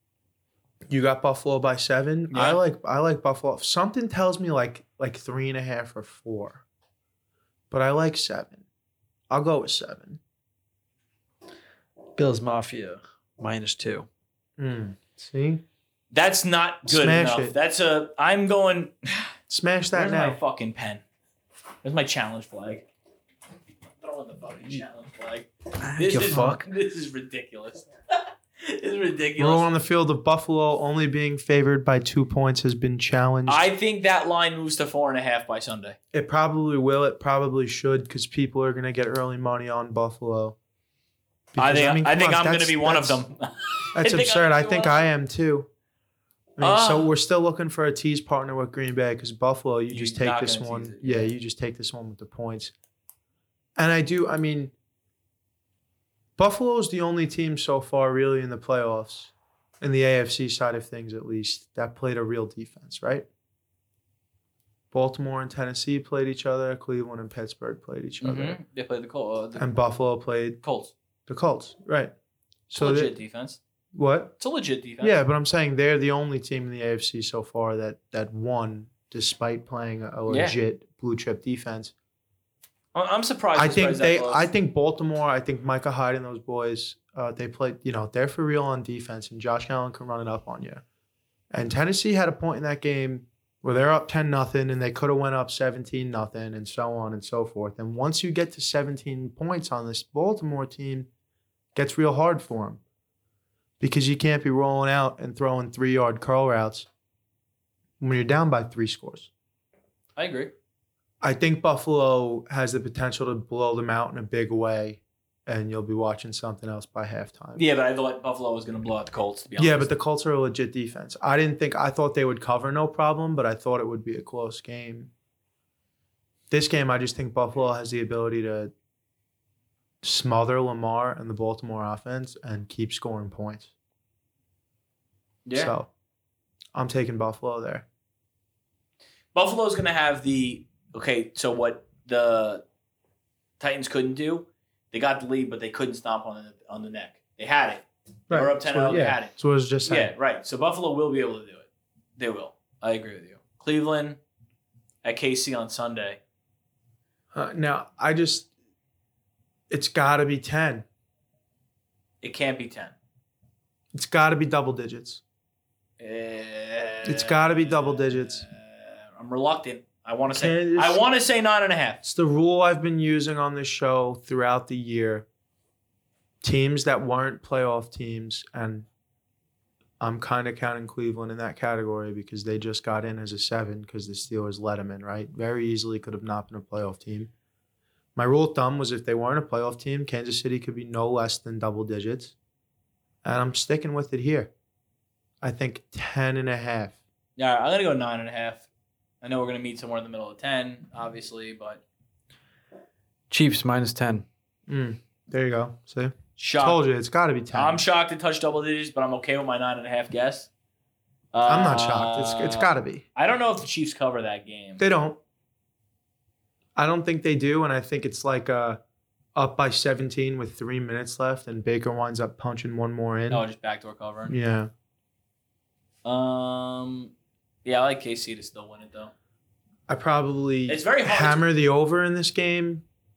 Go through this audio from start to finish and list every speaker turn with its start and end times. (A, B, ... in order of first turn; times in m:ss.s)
0:00.9-0:06.6 A
0:02.3-0:02.6 B
0:07.7-0:08.6 A
0:09.3-0:10.2 A
0:12.2-0:14.1 C
0:14.6-0:15.6 A
0:16.1-0:19.2 B
0:16.8-0:17.5 A
0:19.5-0:20.4 A
0:19.9-0:21.0 B
0:21.8-0:22.9 B
0:24.0-0:29.7 B
0:25.8-0:26.6 C
0:26.1-0:26.6 A
0:29.4-0:33.7 A
0:33.5-0:36.0 B
0:36.1-0:40.6 A
0:41.5-0:43.2 A
0:41.6-0:45.0 B
0:43.9-0:45.7 A
0:46.6-0:52.7 A
0:46.6-0:47.1 B
0:49.9-0:51.3 B
0:53.8-0:54.7 A
0:56.4-1:03.3 A
1:04.9-1:08.6 A
1:08.2-1:09.7 B
1:09.6-1:10.6 A
1:10.6-1:10.9 B
1:11.3-1:12.1 A
1:12.7-1:13.1 A
1:12.7-1:13.6 B
1:13.9-1:14.4 A
1:14.4-1:15.2 B
1:15.0-1:21.9 A
1:20.3-1:20.6 B
1:22.9-1:24.5 B
1:23.6-1:30.8 A
1:31.5-1:41.1 A
1:41.7-1:42.8 A
1:43.8-1:46.9 A
1:48.0-1:49.3 A
1:50.2-1:50.5 B
1:51.2-1:57.6 A
1:57.6-1:59.9 B
1:59.6-2:05.1 A
2:06.5-2:08.7 A
2:10.0-2:13.7 A
2:15.4-2:15.7 B
2:15.5-2:15.9 A
2:16.7-2:17.8 A
2:19.3-2:22.6 B
2:23.6-2:34.2 B
2:28.3-2:30.1 A
2:35.0-2:36.2 B
2:37.3-2:38.5 A
2:39.7-2:40.8 A
2:42.2-2:42.9 B
2:43.9-2:45.2 A
2:46.0-2:52.0 B
2:47.0-2:48.5 A
2:50.3-2:51.0 A
2:52.0-2:55.2 A
2:56.4-2:58.9 A
3:00.0-3:07.3 A
3:08.2-3:12.3 A
3:13.2-3:14.5 A
3:15.4-3:17.0 A
3:17.4-3:18.6 B
3:19.2-3:21.8 B
3:23.3-3:24.2 C
3:24.7-3:27.8 A
3:26.4-3:26.8 B
3:27.5-3:30.5 B
3:31.3-3:34.8 B
3:31.4-3:33.0 A
3:34.8-3:35.2 A
3:36.8-3:38.8 A
3:39.3-3:43.4 A
3:43.3-3:44.4 B
3:44.3-3:44.7 A
3:46.0-3:47.1 B
3:47.6-3:49.1 B
3:49.9-3:52.8 A
3:50.7-3:51.5 B